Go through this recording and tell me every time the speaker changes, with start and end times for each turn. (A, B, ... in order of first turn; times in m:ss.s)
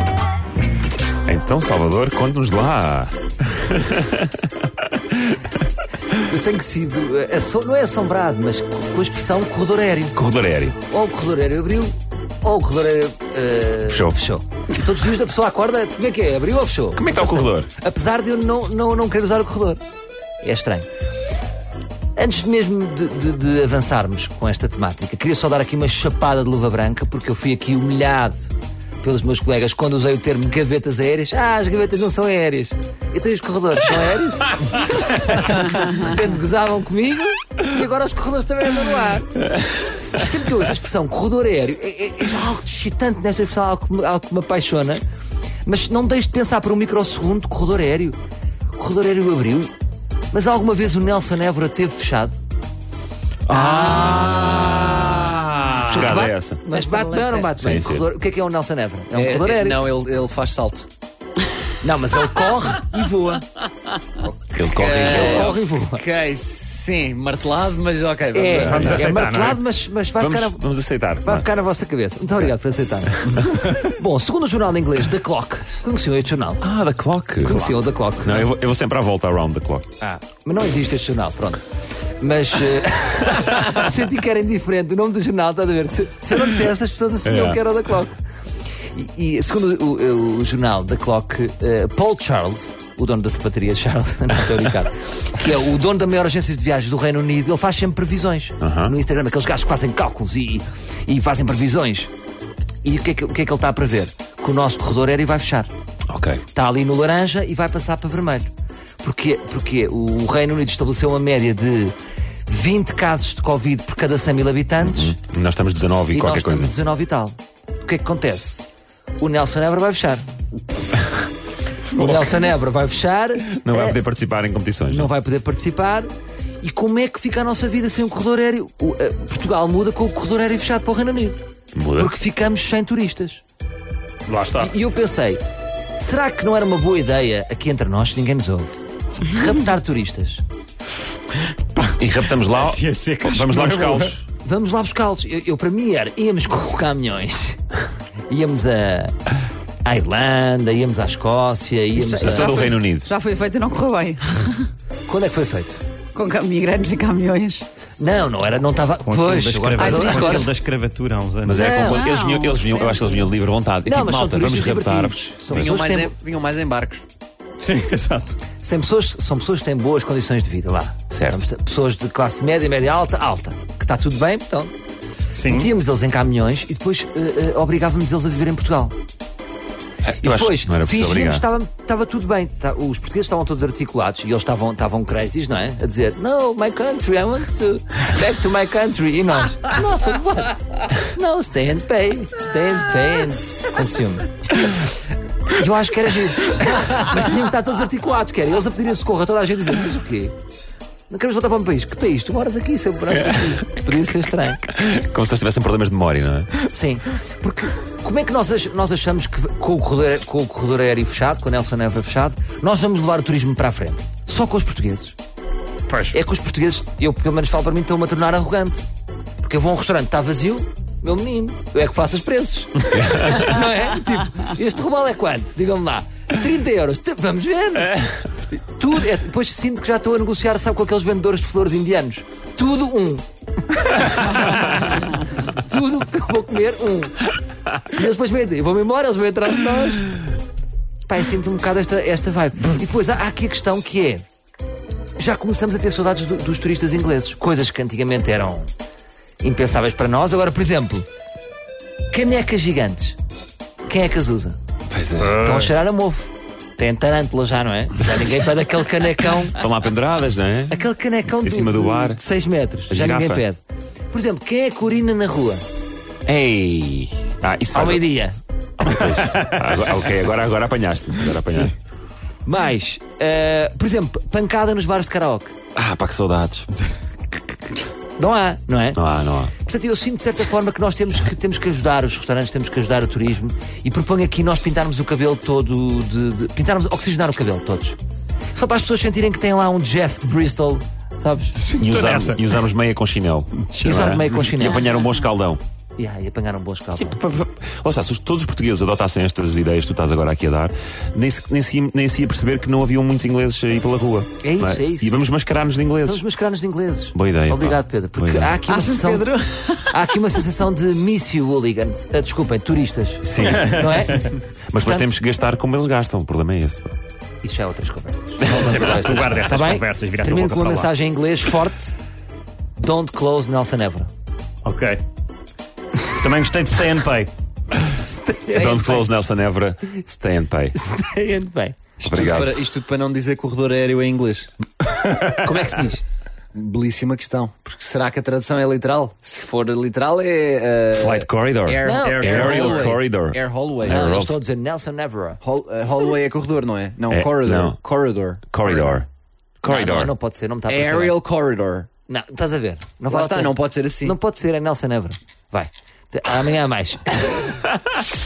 0:01.2-0:04.5 A
0:05.1-0:05.4 A
0:06.1-0:10.2 B
0:10.1-0:10.8 A
0:10.8-0:19.8 B
0:13.9-0:14.2 A
0:16.9-0:17.7 A
0:20.4-0:20.9 B
0:22.2-0:45.0 B
0:45.6-0:48.2 B
0:48.7-0:49.7 B
0:50.3-0:52.4 B
0:53.5-0:56.6 A
0:53.5-0:54.1 B
0:53.8-0:54.6 C
0:55.6-0:59.8 B
0:56.7-0:57.4 C
0:57.5-0:58.0 A
0:59.1-1:00.9 D
1:01.8-1:03.4 B
1:04.2-1:09.3 D
1:04.5-1:05.6 A
1:04.9-1:06.0 B
1:08.3-1:10.6 B
1:08.6-1:09.6 E
1:10.2-1:11.5 A
1:11.2-1:16.6 B
1:16.6-1:19.9 A
1:17.4-1:18.4 B
1:20.0-1:21.6 B
1:22.2-1:28.2 B
1:27.2-1:27.6 A
1:28.8-1:42.1 B
1:38.6-1:39.0 A
1:42.8-1:45.7 B
1:46.1-1:46.4 A
1:46.5-1:48.5 B
1:49.0-1:51.9 B
1:52.5-1:55.1 B
1:54.8-1:56.7 A
1:56.1-1:58.6 B
1:59.2-2:00.3 B
2:01.9-2:04.0 B
2:01.9-2:02.5 A
2:03.4-2:05.1 A
2:04.9-2:06.1 B
2:06.6-2:11.4 B
2:11.7-2:12.1 A
2:12.0-2:13.4 B
2:14.3-2:14.7 E
2:14.6-2:15.4 B
2:15.9-2:20.4 B
2:21.9-2:24.2 A
2:22.5-2:24.1 E
2:24.4-2:27.6 B
2:28.3-2:29.2 B
2:29.8-2:32.7 B
2:32.0-2:34.7 C
2:32.1-2:33.1 A
2:35.1-2:35.8 B
2:36.1-2:37.6 C
2:38.0-2:40.5 B
2:39.0-2:41.7 E
2:39.8-2:40.3 C
2:41.4-2:45.7 A
2:41.6-2:43.3 C
2:43.8-2:46.1 B
2:45.5-2:47.0 D
2:47.6-2:48.4 E
2:48.6-2:54.7 B
2:51.1-2:51.4 A
2:55.3-2:55.7 E
2:55.4-2:58.9 B
3:00.0-3:01.4 A
3:00.2-3:14.9 B
3:15.5-3:20.3 B
3:21.1-3:24.7 B
3:23.2-3:23.5 A
3:24.7-3:26.6 A
3:26.6-3:35.2 B
3:35.9-3:36.2 E
3:36.1-3:38.8 B
3:39.4-4:00.1 B
3:43.0-3:43.3 A
4:01.1-4:04.2 B
4:05.2-4:08.7 B
4:09.4-4:11.1 B
4:12.1-4:13.2 B
4:13.9-4:14.6 B
4:14.9-4:15.4 A
4:15.2-4:15.7 E
4:15.4-4:19.6 B
4:19.5-4:22.2 A
4:20.7-4:25.6 B
4:22.9-4:23.4 A
4:26.2-4:28.2 A
4:27.7-4:28.4 B
4:28.8-4:31.8 A
4:32.4-4:35.5 B
4:35.7-4:36.7 A
4:38.2-4:39.0 B
4:39.0-4:39.5 A
4:39.6-4:48.0 B
4:48.5-4:51.6 B
4:51.6-4:52.4 E
4:51.8-4:55.6 A
4:53.8-4:54.8 B
4:56.0-4:57.2 B
4:56.9-5:06.2 A
5:04.4-5:05.2 B
5:06.0-5:09.3 B
5:07.1-5:08.5 A
5:08.7-5:09.9 C
5:09.9-5:15.1 B
5:13.2-5:14.0 A
5:13.6-5:14.2 E
5:14.7-5:17.0 A
5:17.4-5:22.0 B
5:18.4-5:19.3 A
5:18.4-5:20.9 E
5:22.7-5:24.1 B
5:24.6-5:25.0 E
5:26.2-5:27.3 E
5:27.9-5:29.0 B
5:28.5-5:30.8 A
5:30.7-5:31.8 B
5:32.0-5:34.5 D
5:32.0-5:32.6 A
5:35.1-5:36.0 B
5:36.5-5:44.1 D
5:40.9-5:44.4 A
5:41.8-5:42.8 B
5:41.9-5:42.9 E
5:43.8-5:45.4 B
5:45.4-5:48.9 D
5:47.1-5:47.8 A
5:48.5-5:49.1 A
5:49.6-5:50.1 A
5:49.6-5:51.2 B
5:50.7-5:51.9 D
5:52.1-5:57.4 B
5:53.1-5:54.2 D